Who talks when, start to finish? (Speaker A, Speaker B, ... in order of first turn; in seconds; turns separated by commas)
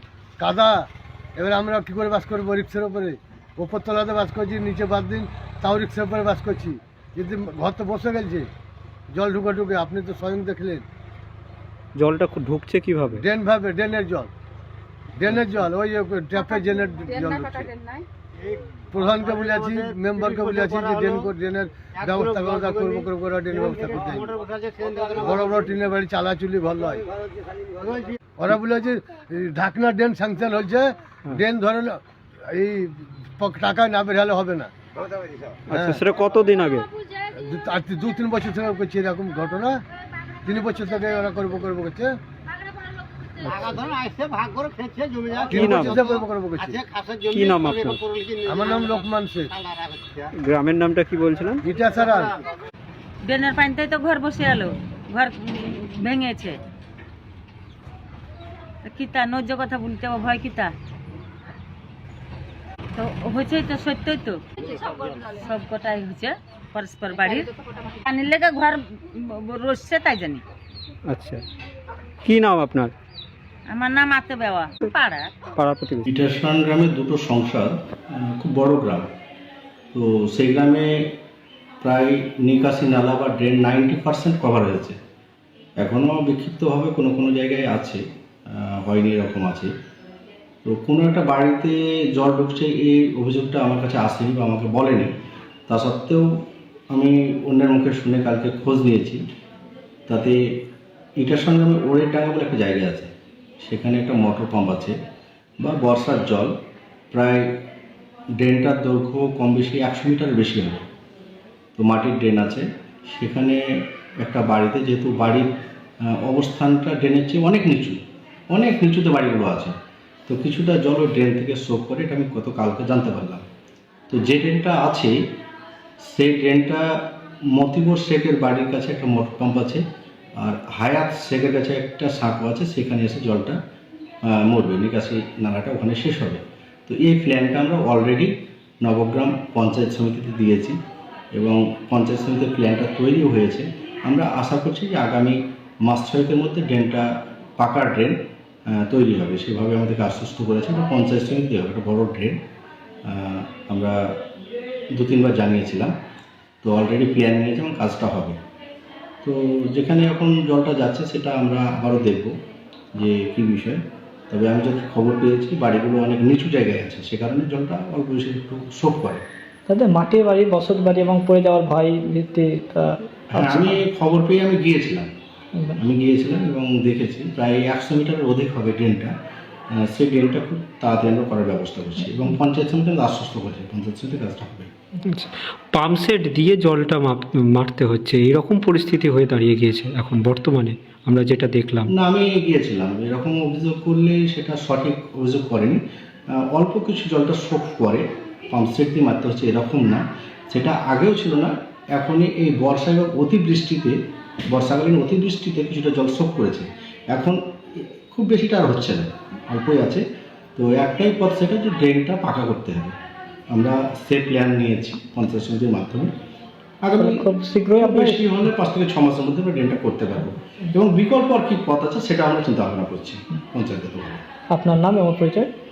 Speaker A: 0.4-8.5, Speaker A: 9.1-10.8, Speaker B: 12.0-13.2, Speaker A: 13.2-14.3, Speaker A: 15.2-17.7, Speaker A: 18.9-24.4, Speaker A: 25.1-27.1, Speaker A: 28.4-34.7, Speaker B: 35.7-36.9, Speaker A: 35.7-36.0, Speaker A: 37.4-39.8, Speaker A: 40.5-42.2, Speaker B: 43.4-43.7, Speaker A: 45.5-46.8, Speaker B: 45.5-46.2, Speaker B: 47.3-48.0, Speaker A: 48.5-49.5, Speaker B: 50.3-51.6, Speaker A: 51.6-52.4, Speaker C: 53.2-56.6, Speaker C: 58.9-60.7, Speaker C: 63.0-64.4, Speaker C: 65.4-67.5, Speaker C: 68.0-70.4, Speaker B: 71.1-71.4, Speaker B: 72.2-72.9, Speaker C: 73.7-75.3, Speaker B: 75.6-76.1, Speaker D: 76.0-79.1, Speaker D: 79.9-81.2, Speaker D: 81.8-85.0, Speaker D: 85.8-89.7, Speaker D: 90.7-95.1, Speaker D: 95.7-96.3, Speaker D: 96.9-99.2, Speaker D: 100.1-100.6, Speaker D: 101.2-103.1, Speaker D: 103.6-105.0, Speaker D: 105.6-106.5, Speaker D: 107.1-107.6, Speaker D: 108.4-110.8, Speaker D: 111.8-113.6, Speaker D: 114.2-115.5, Speaker D: 116.1-118.0, Speaker D: 118.5-119.8, Speaker D: 120.3-123.5, Speaker D: 124.1-125.2, Speaker D: 126.0-126.9, Speaker D: 127.5-129.8, Speaker D: 130.4-133.6, Speaker D: 134.2-140.8, Speaker D: 141.3-147.1, Speaker D: 147.6-148.2, Speaker D: 148.7-152.4, Speaker D: 153.1-154.0, Speaker D: 154.9-155.9, Speaker D: 156.6-158.4, Speaker D: 159.2-162.3, Speaker D: 163.0-169.2, Speaker E: 169.7-173.6, Speaker D: 173.3-175.1, Speaker D: 175.8-179.1, Speaker D: 179.8-184.7, Speaker B: 185.1-191.9, Speaker D: 191.9-195.8, Speaker D: 196.4-204.0, Speaker D: 204.5-210.0, Speaker D: 210.6-212.9, Speaker D: 213.5-216.1, Speaker D: 216.8-224.2, Speaker E: 217.0-218.3, Speaker E: 224.5-225.5